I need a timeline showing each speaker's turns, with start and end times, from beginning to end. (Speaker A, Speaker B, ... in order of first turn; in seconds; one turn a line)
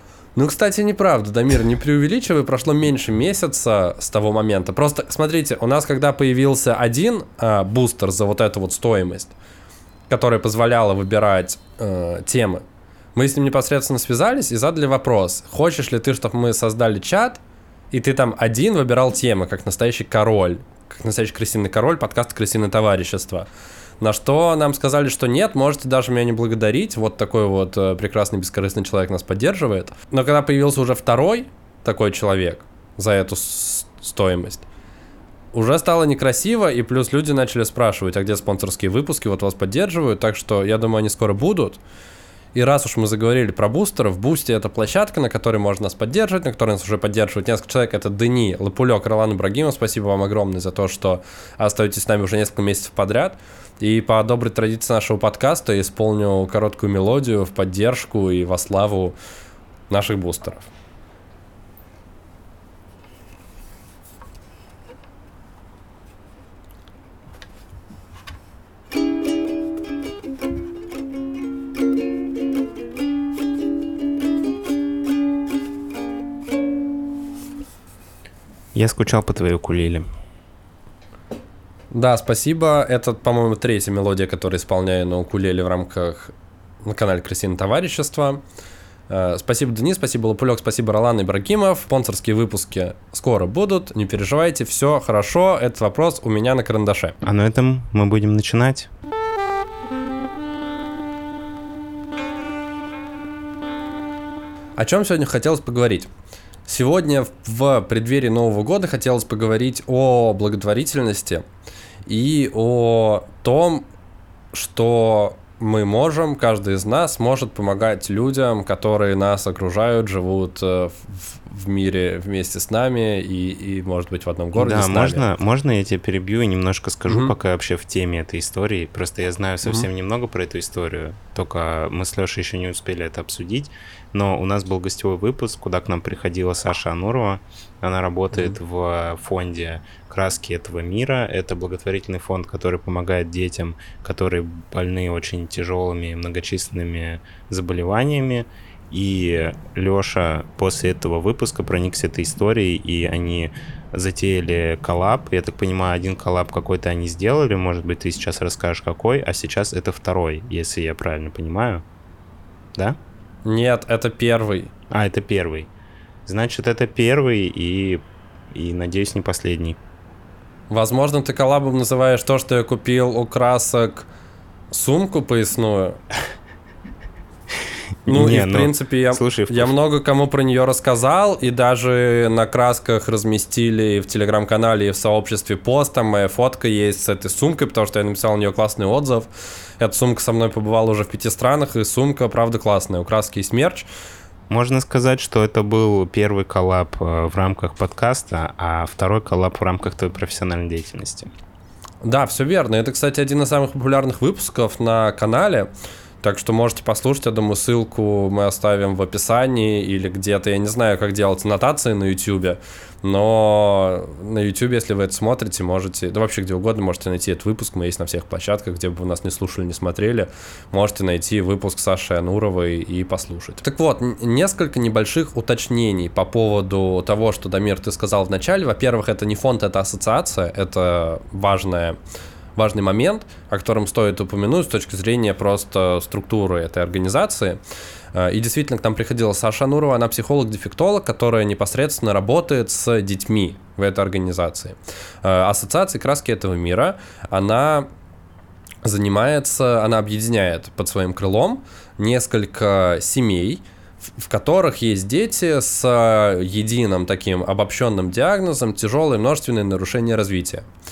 Speaker A: 0.3-9.3
Speaker A: 10.1-12.6
Speaker A: 13.1-17.4
Speaker A: 17.9-23.5
Speaker A: 24.0-34.6
Speaker A: 35.5-41.8
Speaker A: 42.5-59.1
Speaker A: 59.9-60.7
Speaker B: 78.7-80.0
Speaker A: 81.9-88.4
Speaker A: 89.1-97.2
Speaker B: 97.2-98.9
Speaker A: 104.8-106.1
Speaker A: 106.7-111.4
Speaker A: 112.0-113.8
Speaker A: 114.5-125.2
Speaker B: 124.5-161.8
Speaker A: 127.1-127.3
Speaker A: 163.4-164.7
Speaker B: 164.9-165.7
Speaker B: 166.2-169.8
Speaker A: 170.7-174.1
Speaker A: 174.7-176.0
Speaker B: 178.0-179.7
Speaker A: 178.1-193.9
Speaker B: 194.5-201.3
Speaker A: 202.0-205.7
Speaker A: 206.2-231.9
Speaker A: 232.6-237.6
Speaker A: 238.1-247.9
Speaker A: 248.8-260.7